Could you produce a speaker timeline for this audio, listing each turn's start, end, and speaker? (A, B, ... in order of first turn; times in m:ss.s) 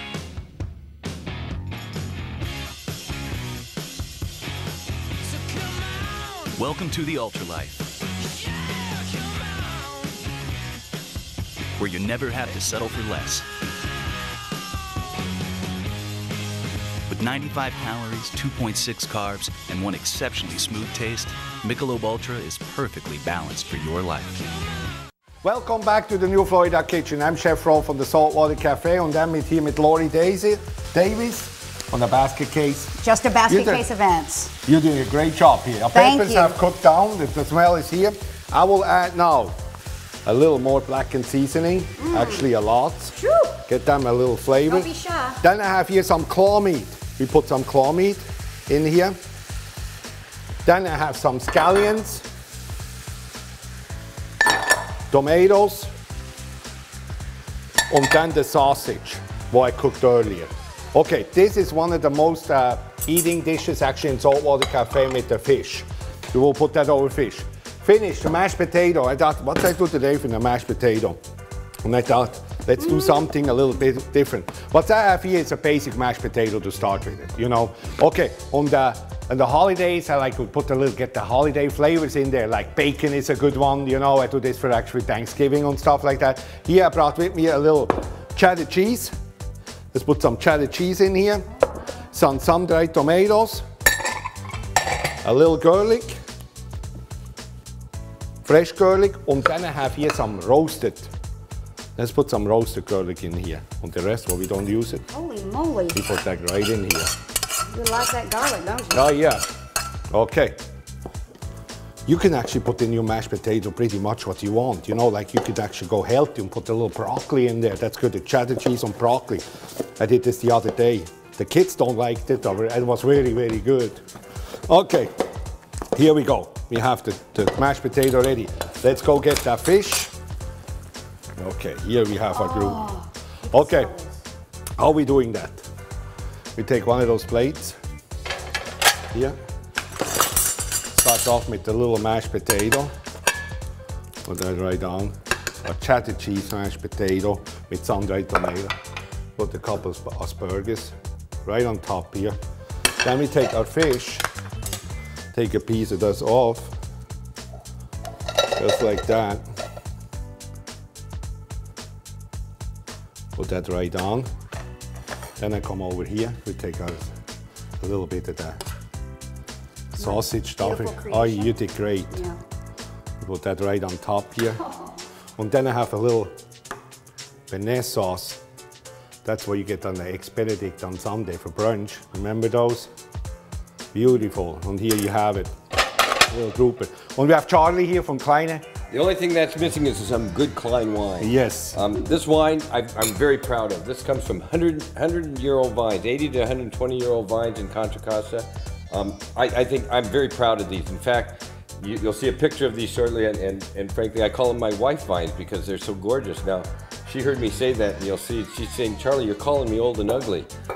0:06.5-0:07.8 A
0:11.8-0:13.5 A
0:17.1-0:24.5 A
0:25.4-0:32.9 B
0:33.0-0:34.5 C
0:33.5-0:33.8 B
0:34.6-0:39.6 B
0:35.9-0:36.5 C
0:40.2-0:44.9 B
0:42.0-0:42.4 C
0:43.2-0:43.5 C
0:44.7-0:45.4 C
0:45.4-0:49.2 B
0:50.6-0:52.2 B
0:55.1-0:55.9 B
0:57.9-1:11.2 B
1:11.8-1:29.1 B
1:29.9-1:31.4 B
1:32.1-1:33.6 B
1:35.2-1:36.2 B
1:38.4-1:41.1 B
1:42.0-1:45.0 B
1:45.1-1:46.0 C
1:45.9-1:47.1 B
1:47.7-1:49.1 C
1:48.9-1:49.4 B
1:50.1-1:50.6 B
1:52.0-1:59.4 B
2:00.0-2:04.0 B
2:04.7-2:05.1 B
2:05.9-2:10.1 B
2:11.4-2:12.9 B
2:12.3-2:14.0 C
2:13.5-2:13.9 B
2:14.8-2:15.6 B
2:16.6-2:17.8 B
2:20.9-2:22.9 B
2:24.2-2:28.7 B
2:29.4-2:32.4 B
2:33.0-2:34.2 B
2:35.3-2:36.7 B
2:38.5-2:39.4 B
2:43.4-2:44.3 B
2:45.4-2:47.1 B
2:47.8-2:48.6 B
2:49.9-2:52.2 B
2:50.0-2:51.6 C
2:52.1-2:52.4 C
2:53.2-2:54.6 B
2:55.4-2:56.3 B
2:57.5-2:58.4 B
2:59.2-3:02.9 B
3:03.9-3:05.5 B
3:06.3-3:08.6 B
3:08.9-3:30.5 D
3:11.2-3:11.8 B